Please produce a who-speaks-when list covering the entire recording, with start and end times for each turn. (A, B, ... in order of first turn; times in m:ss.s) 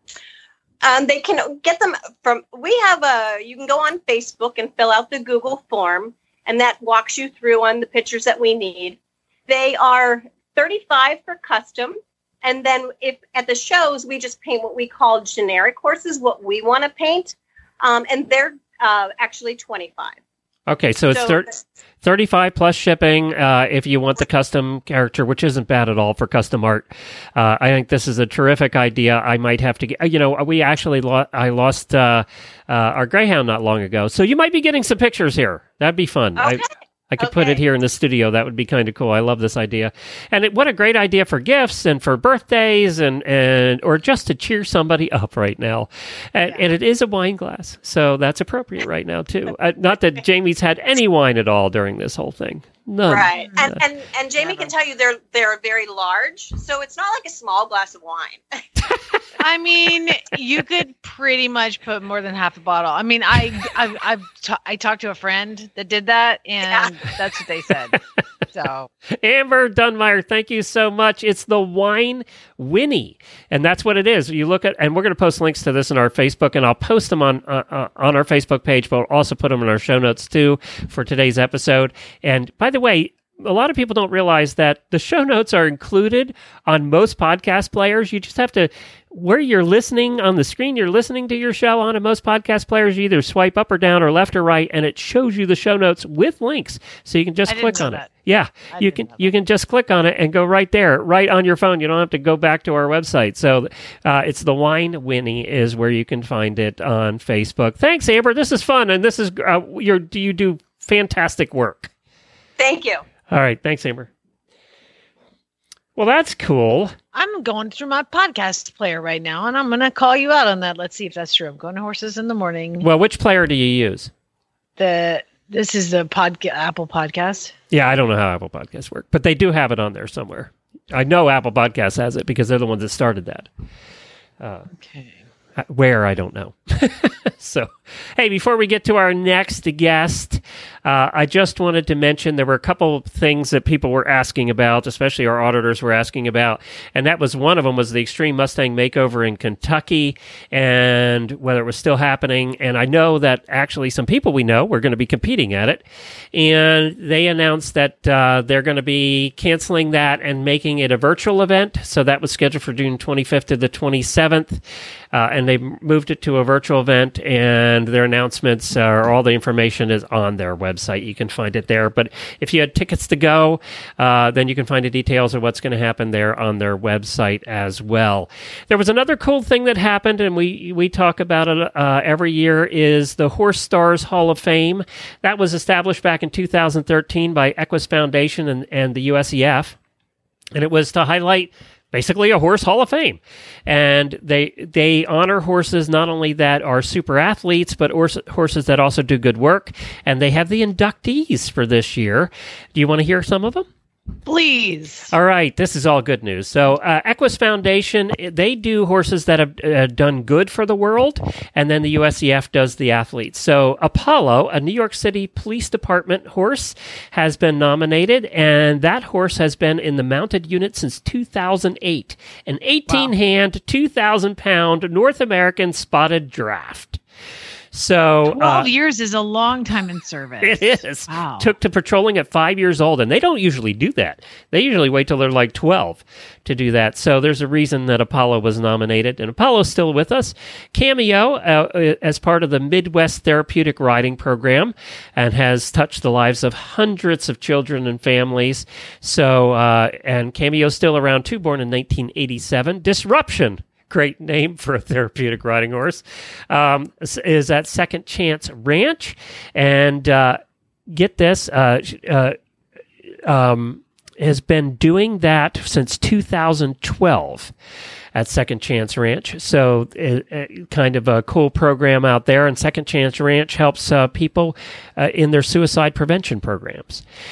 0:00.8-0:20.2 A
0:20.7-0:21.5 B
0:21.1-0:21.6 A
0:22.0-0:36.6 B
0:36.4-0:37.6 A
0:37.2-0:53.8 B
0:53.1-0:58.4 A
0:59.4-1:08.0 C
1:06.7-1:07.0 A
1:08.5-1:08.9 C
1:09.2-1:51.9 B
1:37.5-1:38.1 C
1:38.7-1:39.3 C
1:52.6-1:53.0 A
1:53.3-1:54.1 B
1:56.0-1:57.0 B
1:57.1-2:02.9 C
2:02.8-2:04.1 B
2:04.8-2:07.5 C
2:07.7-2:13.5 B
2:14.4-2:14.7 B
2:14.8-2:15.2 C
2:15.6-2:44.6 B
2:45.1-3:09.8 B
3:10.5-3:23.7 B
3:24.3-3:25.1 C
3:25.1-3:47.0 B
3:47.7-3:48.7 B
3:48.3-3:51.5 C
3:50.4-4:22.4 B
4:23.2-4:27.5 B
4:28.2-4:37.0 B